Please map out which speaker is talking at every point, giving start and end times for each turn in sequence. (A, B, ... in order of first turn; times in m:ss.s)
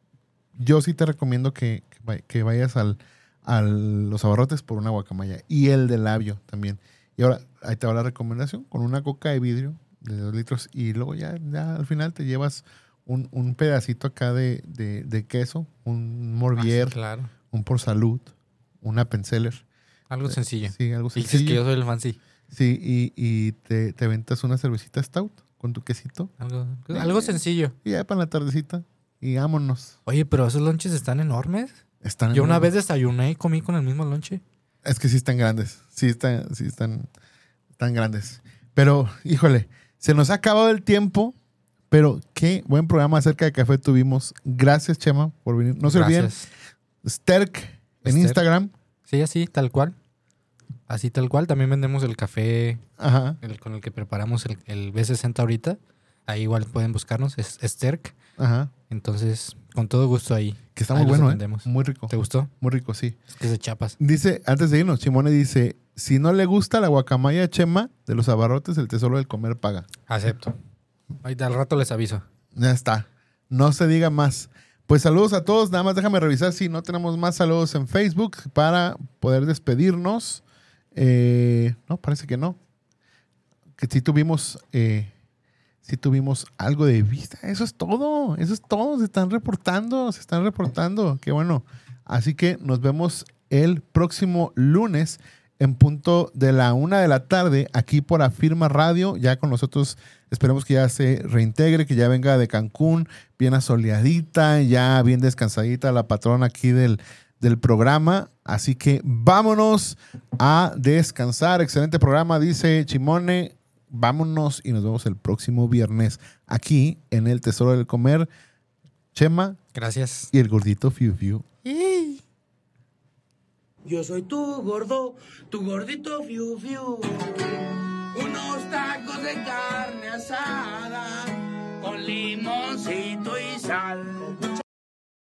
0:00.6-0:17.0 A
0:16.6-0:17.3 B
0:17.5-0:18.3 A
0:18.8-0:19.6 A
0:20.1-0:22.2 B
0:20.3-0:21.6 A
0:22.5-0:26.3 A
0:26.4-0:27.7 B
0:26.9-0:30.0 A
0:30.0-0:31.8 B
0:32.0-0:32.7 A
0:32.3-0:34.4 B
0:34.8-0:37.1 A
0:37.8-0:41.3 A
0:41.9-0:46.3 A
0:45.8-0:46.5 B
0:47.0-0:48.7 A
0:48.0-0:48.4 B
0:49.1-0:49.9 B
0:50.9-0:52.8 B
0:53.0-0:53.4 A
0:53.4-0:58.2 B
0:58.4-0:58.7 A
0:58.9-1:02.5 B
1:00.8-1:03.2 A
1:03.3-1:04.0 B
1:04.0-1:09.9 A
1:10.1-1:10.6 B
1:11.2-1:12.2 B
1:12.5-1:20.4 A
1:20.9-1:22.6 A
1:23.8-1:25.1 A
1:25.8-1:58.3 A
1:59.1-1:59.6 A
1:59.7-2:00.3 B
2:00.3-2:01.4 A
2:01.6-2:02.2 B
2:03.8-2:14.5 C